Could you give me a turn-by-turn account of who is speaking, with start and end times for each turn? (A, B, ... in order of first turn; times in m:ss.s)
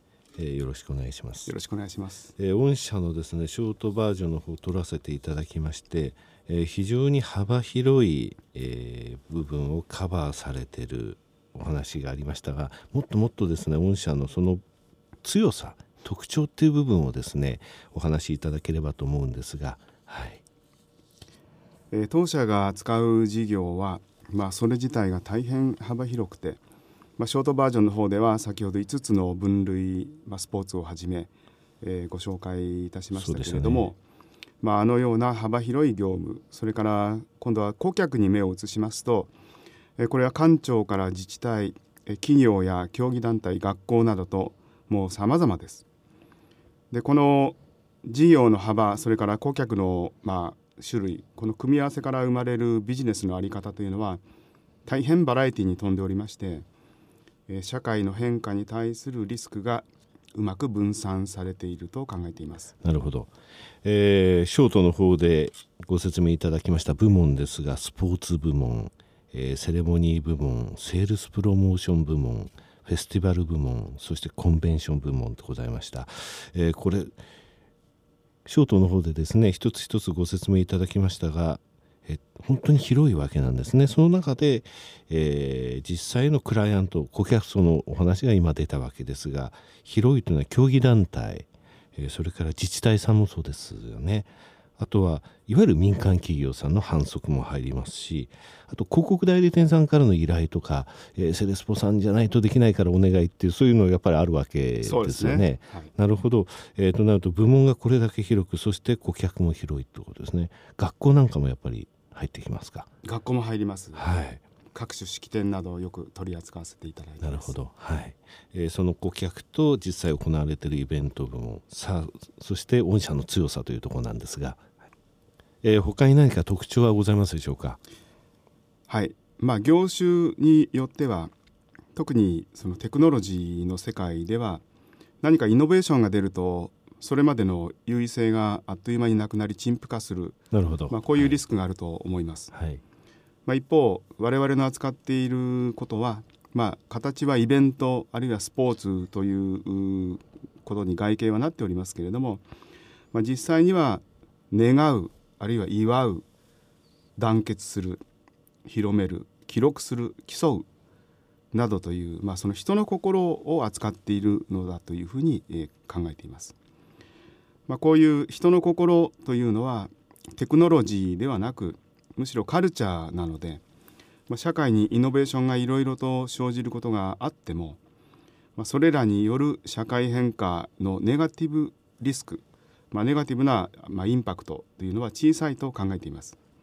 0:00.4-0:01.5 A
0:01.5-0:02.3 B
0:02.4-0:14.6 A
0:15.2-0:20.4 A
0:21.9-0:26.6 B
0:27.2-0:34.0 B
0:33.1-0:33.9 A
0:34.6-0:39.3 B
0:40.0-0:45.8 B
0:46.9-0:54.2 B
0:54.8-0:56.7 B
0:57.5-1:02.7 B
1:02.8-1:03.3 A
1:03.8-1:17.1 A
1:18.4-1:52.9 A
1:44.8-1:45.9 B
1:53.0-1:54.0 B
1:53.9-1:54.4 A
1:54.7-1:57.5 B
1:57.2-2:04.6 A
2:05.6-2:07.8 A
2:08.9-2:11.3 B
2:12.0-2:14.6 B
2:15.2-2:22.5 B
2:20.5-2:21.4 A
2:22.5-2:22.8 A
2:23.4-2:32.4 B
2:33.1-2:36.2 B
2:37.2-2:38.0 B
2:38.6-2:40.6 B
2:41.5-2:46.5 B
2:47.7-2:53.6 B
2:54.3-2:57.8 B
2:58.6-3:06.4 B